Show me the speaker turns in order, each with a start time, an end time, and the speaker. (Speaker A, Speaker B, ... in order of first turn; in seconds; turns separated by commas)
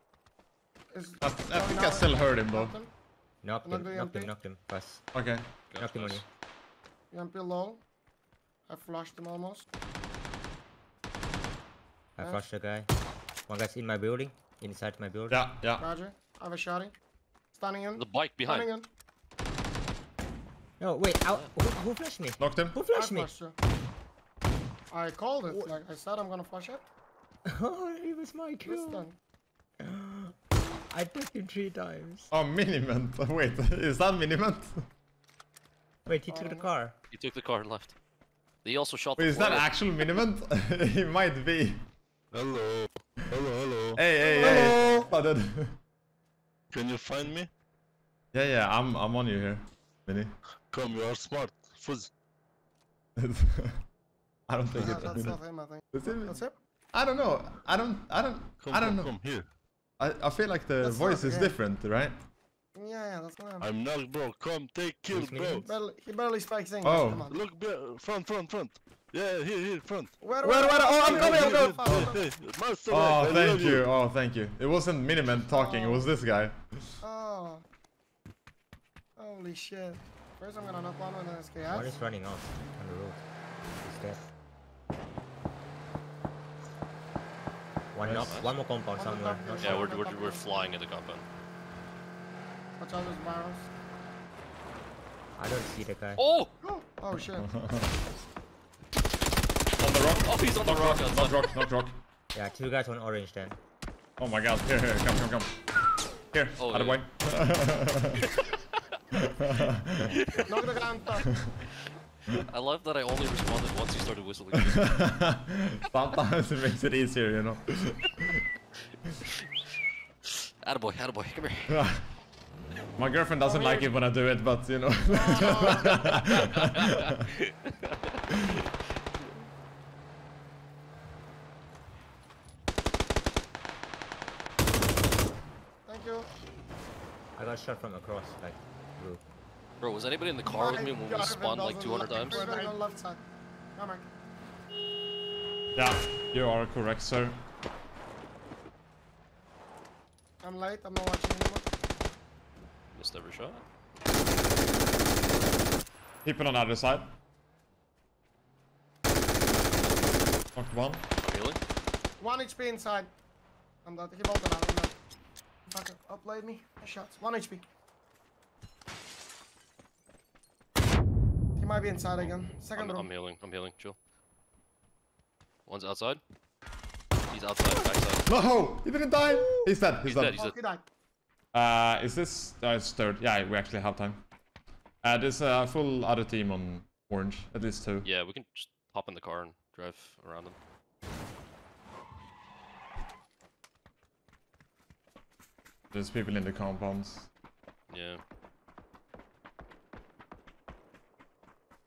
Speaker A: 0.9-2.9, Speaker B: 1.2-2.8, Speaker C: 3.4-5.0, Speaker A: 3.6-4.3, Speaker B: 5.1-5.4, Speaker D: 5.7-6.2, Speaker C: 5.8-6.2, Speaker A: 7.1-7.8, Speaker A: 8.7-9.7, Speaker C: 12.2-12.9, Speaker C: 13.5-15.4, Speaker B: 15.3-15.8, Speaker A: 15.8-16.9, Speaker A: 17.5-18.9, Speaker D: 17.9-18.7, Speaker C: 20.8-23.3, Speaker D: 21.2-21.5, Speaker B: 22.4-22.8, Speaker A: 22.9-23.6, Speaker A: 24.9-26.8, Speaker C: 25.5-25.8, Speaker C: 27.4-29.1, Speaker A: 28.6-29.2, Speaker C: 29.8-30.3, Speaker C: 30.9-32.3, Speaker B: 32.3-34.8, Speaker C: 36.0-37.0, Speaker A: 36.3-36.7, Speaker D: 37.1-37.9, Speaker D: 38.6-39.9, Speaker B: 39.2-41.8, Speaker E: 42.3-44.0, Speaker B: 44.0-45.8, Speaker A: 44.2-45.1, Speaker E: 46.7-47.5, Speaker B: 48.3-50.3, Speaker E: 50.7-52.1, Speaker B: 53.2-53.8, Speaker B: 54.5-55.4, Speaker A: 54.7-56.6, Speaker B: 55.9-56.4, Speaker B: 56.9-59.1, Speaker E: 58.6-59.5, Speaker B: 60.0-62.1, Speaker A: 60.8-61.6, Speaker A: 62.7-63.7, Speaker E: 63.6-65.7, Speaker C: 65.1-65.7, Speaker A: 65.6-67.4, Speaker B: 66.8-67.2, Speaker E: 67.2-70.1, Speaker A: 70.2-72.3, Speaker B: 70.4-72.1, Speaker E: 71.0-73.9, Speaker B: 72.9-77.0, Speaker A: 75.3-76.1, Speaker A: 77.0-77.6, Speaker A: 79.2-81.9, Speaker C: 81.7-83.2, Speaker C: 83.8-84.3, Speaker C: 87.9-89.9, Speaker B: 88.0-88.3, Speaker D: 88.1-88.5, Speaker A: 88.9-90.5, Speaker D: 89.6-91.2, Speaker A: 92.8-93.7, Speaker C: 95.4-96.2, Speaker D: 96.2-96.5, Speaker A: 96.6-97.5, Speaker B: 97.4-97.9, Speaker B: 99.8-102.0, Speaker D: 100.2-101.5, Speaker C: 102.3-103.6, Speaker B: 104.2-105.5, Speaker B: 106.3-108.2, Speaker D: 106.6-107.0, Speaker B: 109.1-109.9, Speaker C: 110.0-110.7, Speaker D: 110.1-110.5, Speaker A: 110.5-111.3, Speaker D: 112.3-114.9, Speaker B: 114.5-118.4, Speaker D: 120.6-121.9, Speaker B: 121.7-122.0, Speaker B: 123.0-127.1, Speaker A: 123.4-123.9, Speaker A: 125.0-126.1, Speaker D: 126.3-127.9, Speaker A: 135.8-136.3, Speaker C: 137.3-139.2, Speaker D: 139.8-142.4, Speaker A: 140.4-143.2, Speaker A: 143.8-144.1, Speaker B: 145.7-147.3, Speaker A: 150.4-151.6, Speaker D: 152.9-153.6, Speaker B: 156.2-157.1, Speaker B: 160.5-161.0, Speaker D: 161.2-161.6, Speaker A: 162.2-163.1, Speaker A: 163.8-164.9, Speaker A: 165.7-167.7, Speaker A: 171.6-173.1, Speaker D: 172.2-174.0, Speaker D: 175.7-176.2, Speaker D: 177.3-178.2, Speaker B: 178.3-180.4, Speaker D: 180.0-180.6, Speaker A: 180.3-180.8, Speaker B: 181.5-184.2, Speaker B: 185.0-188.1, Speaker D: 188.0-190.6, Speaker B: 195.9-197.3, Speaker D: 197.9-198.2